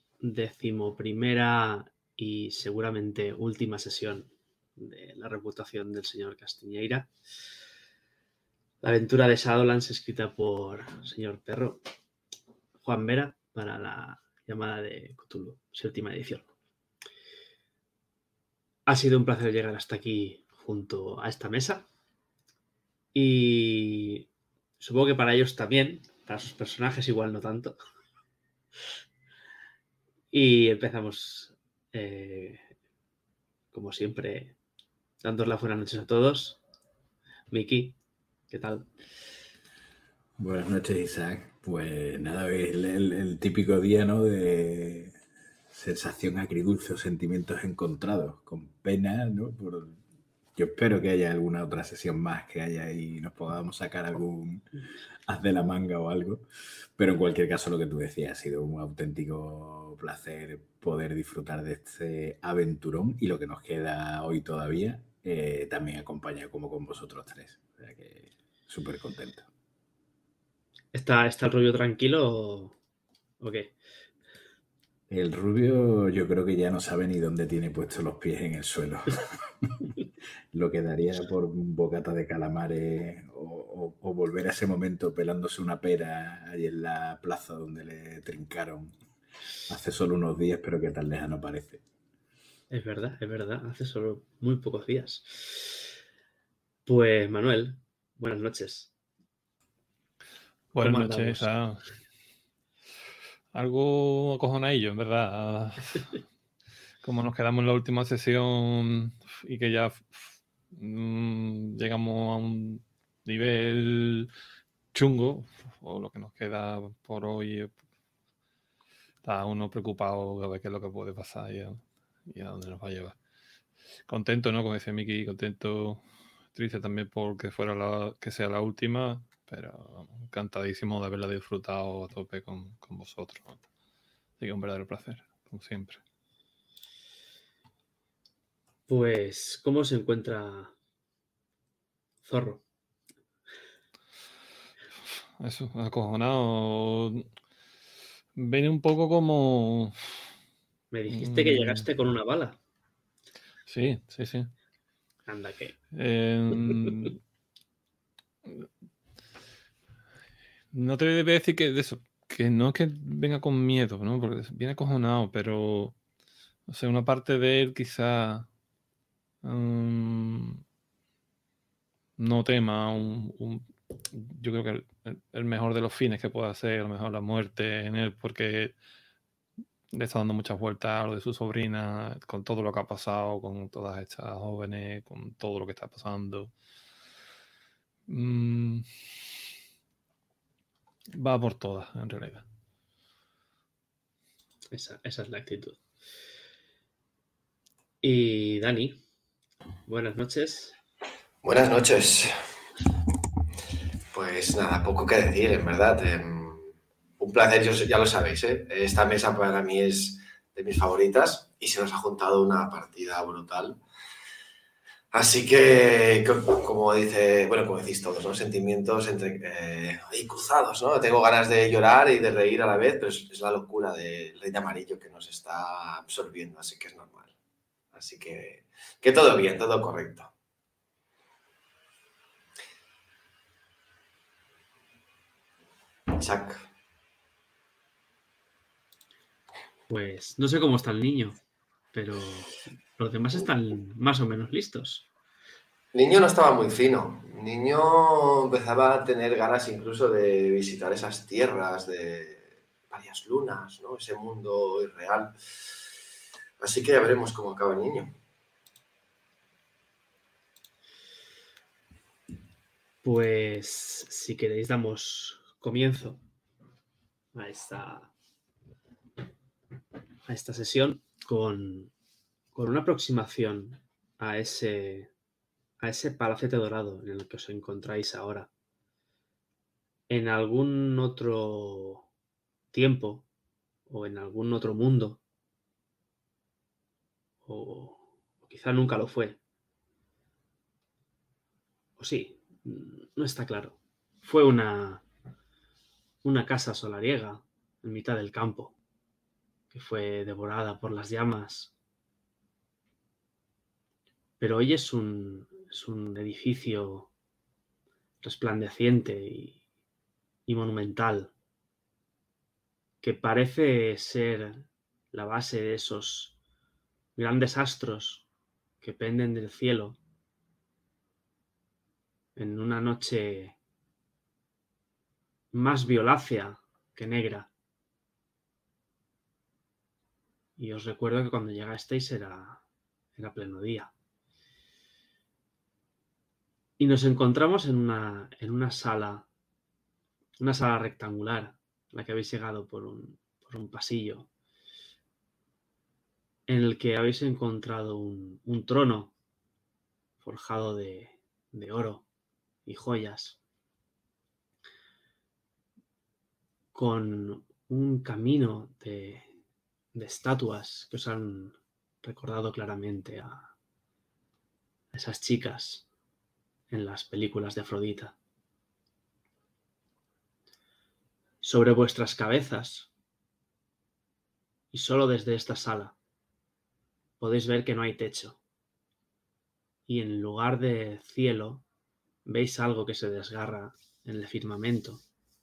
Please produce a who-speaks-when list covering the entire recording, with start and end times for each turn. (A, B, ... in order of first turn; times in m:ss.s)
0:00.2-0:07.1 A
0:08.8-0:11.8 A
0:12.8-0:16.5 A
0:18.9-0:21.8 A
0:23.1-0:24.2 A
0:24.8-0:27.8 A
0:30.3-0:32.7 A
0:33.7-0:34.6 A
0:35.2-0:36.6 A
0:37.5-0:38.0 A
0:38.5-0:38.9 A
0:40.4-0:45.2 B
0:45.7-0:50.0 B
0:50.6-0:54.7 B
0:55.2-1:09.5 B
1:10.9-1:12.8 A
1:13.4-1:13.7 A
1:15.1-1:19.8 B
1:20.5-1:28.9 B
1:29.7-1:31.8 B
1:32.7-1:35.8 A
1:36.8-1:38.9 A
1:40.7-1:41.8 C
1:40.8-1:41.5 A
1:43.5-1:46.2 C
1:47.0-1:54.3 C
1:54.9-1:57.7 C
1:59.2-2:03.2 C
2:04.1-2:13.6 C
2:14.4-2:16.0 C
2:18.9-2:20.7 A
2:22.2-2:22.6 A
2:25.4-2:27.3 C
2:28.3-2:30.0 C
2:30.9-2:32.6 A
2:31.1-2:31.9 C
2:33.7-2:34.5 C
2:35.3-2:35.8 A
2:35.9-2:37.2 C
2:40.7-2:46.0 C
2:46.7-2:48.5 C
2:49.4-2:50.6 C
2:52.2-2:58.8 C
2:59.9-3:06.5 C
3:08.1-3:08.9 C
3:11.1-3:12.4 C
3:14.7-3:15.8 A
3:18.0-3:19.0 A
3:19.8-3:20.8 A
3:21.4-3:22.4 D
3:24.1-3:33.8 D
3:35.1-3:47.3 D
3:47.9-3:50.3 D
3:56.1-3:56.6 D
3:59.9-4:01.4 A
4:01.9-4:05.0 A
4:05.9-4:15.3 D
4:16.6-4:18.1 D
4:23.0-4:26.2 A
4:27.3-4:28.1 A
4:30.3-4:31.9 A
4:32.5-4:35.1 A
4:35.8-4:38.5 A
4:40.1-4:42.1 A
4:42.7-4:43.2 A
4:43.9-4:45.2 A
4:47.4-4:49.4 A
4:52.0-4:55.0 A
4:56.2-4:58.8 A
4:59.7-5:01.7 A
5:04.4-5:07.1 A
5:08.2-5:09.6 A
5:10.5-5:11.3 A
5:13.0-5:16.4 A
5:17.2-5:18.3 A
5:18.8-5:20.0 A
5:22.4-5:23.6 A
5:25.5-5:27.5 A
5:30.6-5:32.6 A
5:33.2-5:33.9 A
5:36.8-5:39.2 A
5:40.4-5:44.3 A
5:46.5-5:49.1 A
5:50.2-5:52.0 A
5:52.6-5:53.4 A
5:56.7-5:59.3 A
5:59.9-6:03.5 A
6:04.9-6:05.9 A
6:06.7-6:08.1 A
6:11.4-6:12.9 A
6:14.7-6:15.9 A
6:17.2-6:18.4 A
6:19.9-6:21.6 A
6:22.2-6:25.0 A